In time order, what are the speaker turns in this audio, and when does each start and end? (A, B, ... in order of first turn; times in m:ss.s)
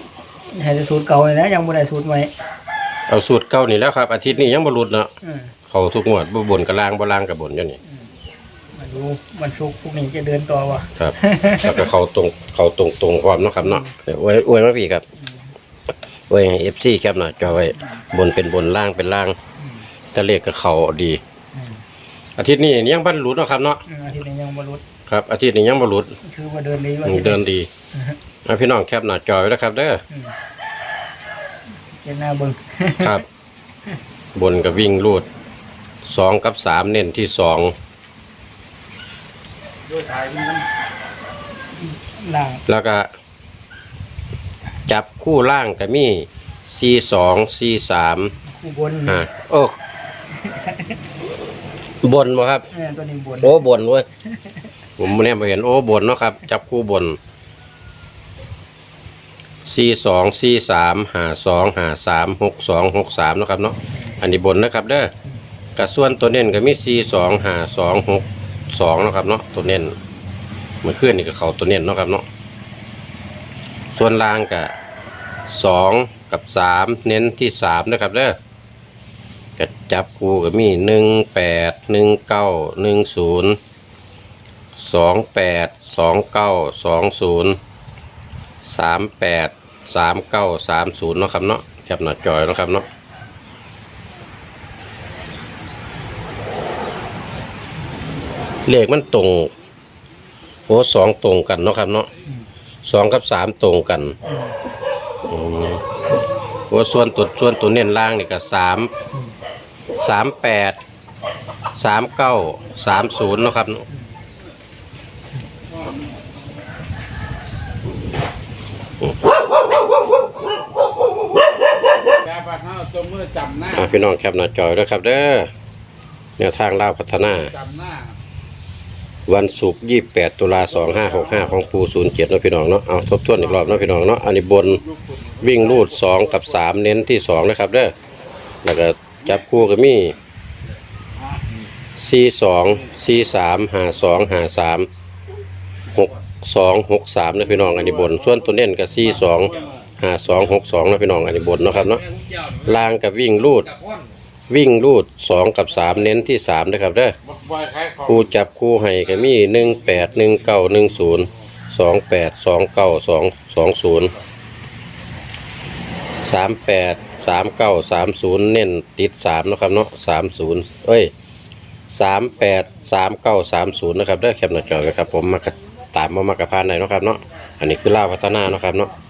0:00.5-0:02.3 A
0:03.1-0:05.1 B
0:05.2-0:05.5 A
0:05.7-0:07.8 B
0:08.7-0:11.9 A
0:11.0-0:15.0 B
0:13.6-0:13.9 A
0:15.2-0:15.5 A
0:16.3-0:19.4 B
0:19.6-0:19.9 A
0:20.1-0:21.2 B
0:21.5-0:21.8 A
0:22.4-0:23.8 B
0:23.8-0:24.8 A
0:25.1-0:26.2 B
0:26.2-0:27.4 A
0:27.0-0:27.7 B
0:27.9-0:28.2 A
0:28.4-0:30.0 B
0:30.1-0:30.4 A
0:31.9-0:33.2 A
0:33.0-0:33.2 B
0:34.4-0:35.3 B
0:36.0-0:37.7 B
0:41.8-0:42.6 A
0:42.7-0:43.1 B
0:44.9-0:48.3 B
0:48.4-0:49.2 A
0:49.1-0:49.8 B
0:50.3-0:51.0 A
0:52.0-0:52.7 B
0:52.7-0:53.6 A
0:53.4-0:54.1 B
0:54.2-0:54.7 A
0:55.0-0:57.2 B
0:59.7-1:05.1 B
1:05.8-1:10.0 B
1:10.8-1:12.2 B
1:13.9-1:14.7 B
1:15.5-1:18.4 B
1:19.6-1:23.6 B
1:24.8-1:27.6 B
1:28.6-1:32.9 B
1:38.7-1:39.5 B
1:40.7-1:42.1 B
1:42.8-1:44.2 B
1:44.2-1:44.6 A
1:45.3-1:45.8 B
1:46.7-1:48.9 B
1:50.0-1:50.8 B
1:51.8-1:53.9 B
2:02.2-2:03.7 C
2:03.6-2:05.5 B
2:06.4-2:07.6 B
2:07.6-2:08.1 C
2:09.3-2:14.8 B
2:15.4-2:17.9 B
2:18.6-2:20.2 B
2:22.0-2:24.9 B
2:25.9-2:33.7 B
2:34.5-2:37.2 B
2:37.4-2:38.0 C
2:37.9-2:44.1 B
2:46.2-2:51.1 B
2:51.9-2:58.9 B